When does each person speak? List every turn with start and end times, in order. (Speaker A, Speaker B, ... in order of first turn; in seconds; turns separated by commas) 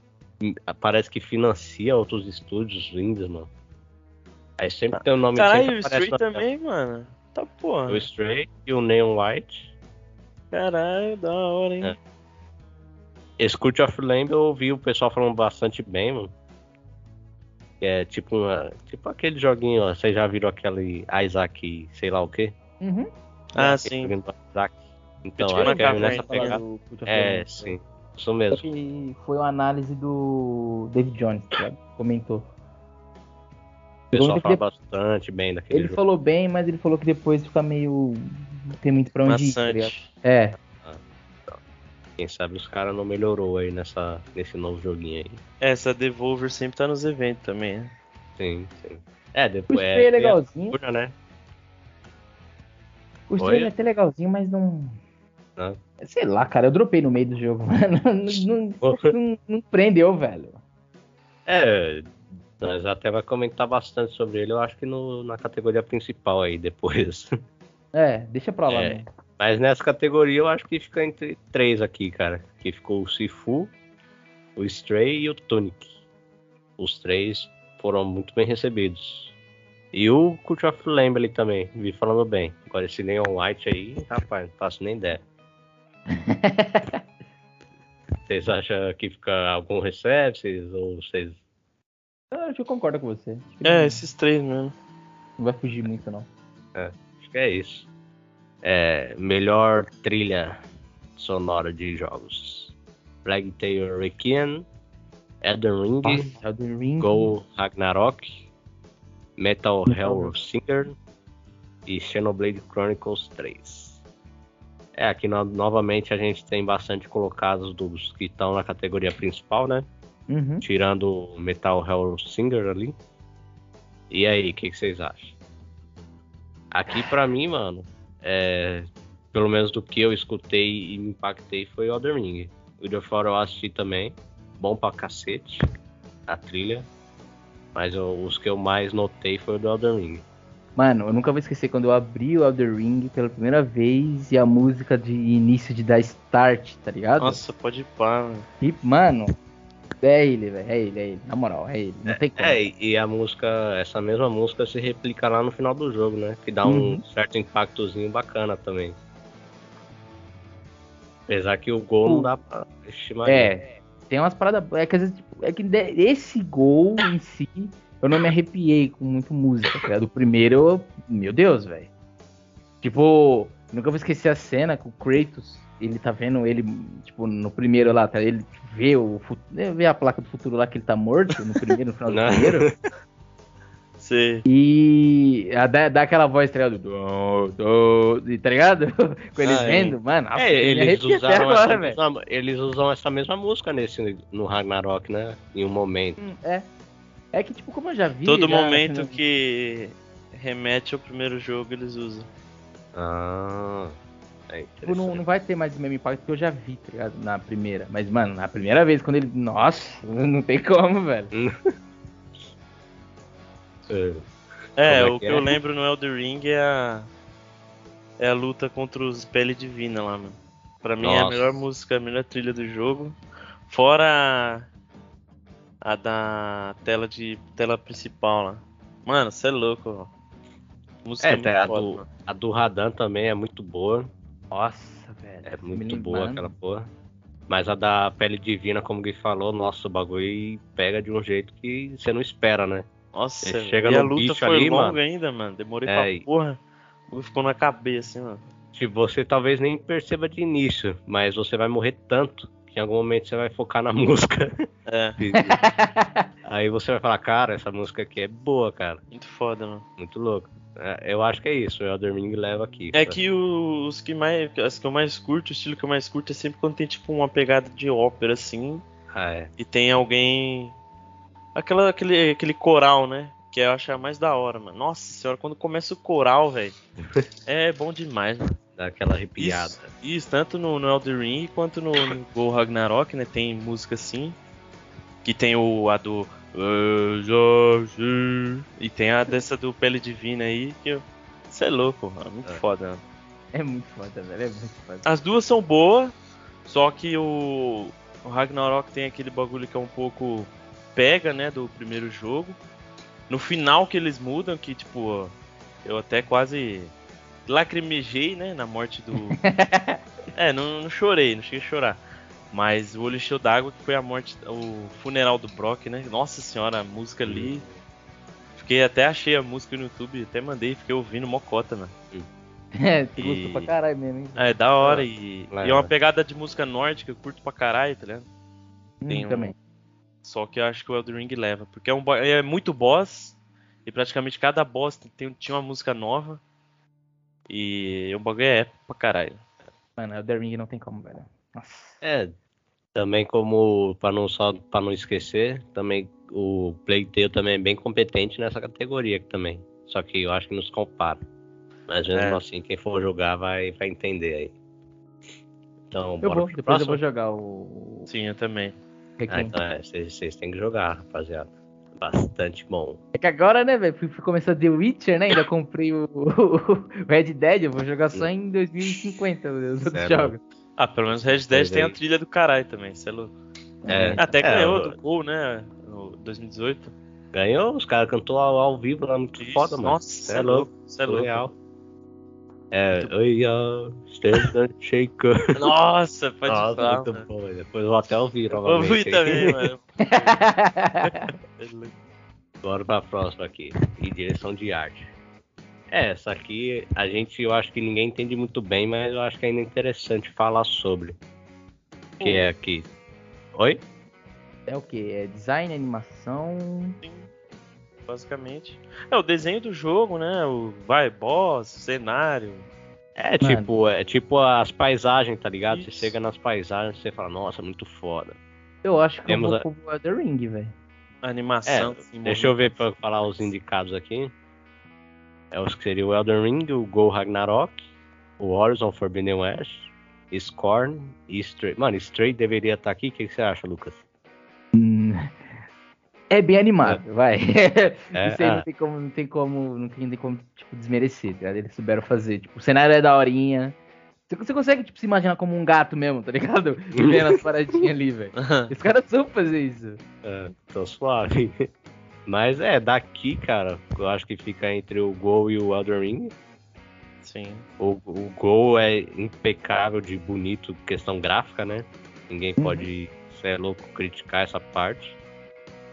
Speaker A: 0.4-3.5, Speaker A: 4.6-6.4, Speaker B: 5.3-8.0, Speaker A: 7.9-9.7, Speaker B: 10.5-11.9, Speaker A: 13.4-16.3, Speaker A: 17.8-22.5, Speaker C: 22.8-23.1, Speaker B: 23.5-24.1, Speaker A: 23.6-28.6, Speaker C: 25.4-27.8, Speaker B: 25.5-26.6, Speaker C: 28.5-32.5, Speaker A: 34.1-36.0, Speaker C: 34.1-34.6, Speaker C: 35.7-40.6, Speaker B: 39.2-40.1, Speaker A: 40.8-41.6, Speaker A: 42.2-45.4, Speaker B: 45.6-47.9, Speaker A: 48.4-51.1, Speaker C: 49.7-50.8, Speaker C: 53.3-55.0, Speaker A: 53.4-53.7, Speaker C: 56.0-60.6, Speaker A: 58.3-59.1, Speaker A: 61.5-67.3, Speaker C: 67.9-69.0, Speaker A: 68.7-73.7, Speaker A: 74.5-75.9, Speaker A: 76.8-79.3, Speaker A: 79.9-85.2, Speaker C: 86.1-87.0, Speaker A: 88.2-91.4, Speaker C: 92.3-94.0, Speaker B: 93.6-94.7, Speaker C: 95.4-96.3, Speaker A: 96.7-97.8, Speaker A: 98.6-100.6, Speaker A: 101.2-102.7, Speaker A: 103.2-104.7, Speaker A: 105.4-106.3, Speaker C: 106.0-107.3, Speaker A: 107.0-108.5, Speaker A: 109.4-110.9, Speaker C: 109.9-110.3, Speaker A: 111.9-114.0, Speaker A: 115.0-119.9, Speaker C: 120.3-120.6, Speaker A: 120.6-122.9, Speaker A: 124.1-125.3, Speaker A: 126.7-135.6, Speaker A: 136.3-136.9, Speaker A: 137.7-140.2, Speaker C: 140.8-147.4, Speaker B: 147.2-148.5, Speaker C: 148.6-149.3, Speaker C: 150.0-152.6, Speaker A: 152.1-158.9, Speaker C: 156.6-157.0, Speaker A: 161.3-163.6, Speaker C: 162.0-162.3, Speaker C: 163.2-171.9, Speaker C: 172.8-182.7, Speaker A: 182.1-182.8, Speaker B: 184.0-184.4, Speaker C: 184.4-192.0, Speaker A: 189.4-196.2, Speaker C: 196.2-196.7, Speaker C: 197.3-199.2, Speaker B: 198.2-202.3, Speaker A: 202.9-203.9, Speaker A: 204.5-205.2, Speaker C: 204.8-211.3, Speaker A: 213.9-214.3, Speaker B: 214.8-217.1, Speaker A: 214.8-215.5, Speaker B: 218.2-223.2, Speaker A: 221.0-221.6, Speaker B: 223.7-224.7, Speaker B: 225.8-230.1, Speaker B: 231.0-232.0, Speaker A: 231.2-234.1, Speaker C: 234.5-236.5, Speaker A: 235.4-236.9, Speaker A: 237.5-242.9, Speaker B: 243.1-246.6, Speaker A: 243.4-245.0, Speaker A: 245.8-246.2, Speaker B: 247.1-248.4, Speaker A: 248.7-255.6, Speaker B: 254.9-255.2, Speaker C: 255.4-256.3, Speaker A: 256.4-259.0, Speaker B: 259.1-259.8, Speaker A: 260.0-263.2, Speaker B: 262.9-268.8, Speaker A: 269.1-269.5, Speaker B: 269.6-270.7, Speaker B: 271.5-276.8, Speaker B: 277.4-278.6, Speaker A: 278.8-279.9, Speaker B: 279.4-284.4, Speaker B: 285.2-293.0, Speaker C: 293.5-295.0, Speaker B: 295.0-296.1, Speaker B: 296.6-302.6, Speaker B: 303.3-306.9, Speaker B: 307.5-309.4, Speaker C: 309.1-310.0, Speaker B: 310.3-312.0, Speaker B: 312.5-317.6, Speaker A: 317.2-317.6, Speaker B: 318.6-321.9, Speaker C: 322.7-324.4, Speaker B: 323.2-323.7, Speaker B: 324.4-328.2, Speaker A: 324.8-325.9, Speaker C: 329.0-329.5, Speaker B: 329.1-329.5, Speaker B: 330.2-336.4, Speaker B: 337.5-339.4, Speaker C: 340.0-342.0, Speaker A: 342.0-342.3, Speaker A: 342.9-351.2, Speaker A: 351.9-354.5, Speaker B: 352.1-352.4, Speaker A: 355.9-357.0, Speaker C: 356.2-358.1, Speaker B: 358.1-358.8, Speaker C: 359.2-359.5, Speaker A: 359.3-363.0, Speaker C: 363.1-370.4, Speaker A: 369.9-370.4, Speaker B: 370.8-373.3, Speaker A: 371.1-371.9, Speaker C: 373.8-374.2, Speaker A: 373.9-375.0, Speaker B: 374.2-376.9, Speaker A: 377.3-381.5, Speaker B: 379.4-381.4, Speaker A: 382.7-385.6, Speaker B: 385.5-387.3, Speaker A: 386.5-389.6, Speaker B: 388.6-390.4, Speaker C: 390.0-391.3, Speaker B: 391.0-391.9, Speaker A: 392.6-395.1, Speaker A: 395.9-401.2, Speaker B: 402.2-402.4, Speaker A: 402.2-402.9, Speaker A: 403.5-403.8, Speaker C: 404.7-407.0, Speaker B: 407.0-407.3, Speaker B: 408.1-412.7, Speaker A: 413.2-418.4, Speaker C: 413.4-413.7, Speaker B: 415.7-416.1, Speaker C: 418.8-420.7, Speaker A: 419.3-419.6, Speaker B: 421.2-422.8, Speaker A: 421.6-424.3, Speaker A: 425.5-427.9, Speaker A: 428.4-434.0, Speaker C: 434.7-435.4, Speaker C: 436.3-443.8, Speaker A: 438.1-438.6, Speaker C: 444.3-450.0, Speaker A: 446.9-447.2, Speaker B: 448.4-448.7, Speaker A: 450.2-451.7, Speaker A: 452.3-456.3, Speaker B: 457.2-457.6, Speaker A: 457.8-465.1, Speaker C: 462.6-462.9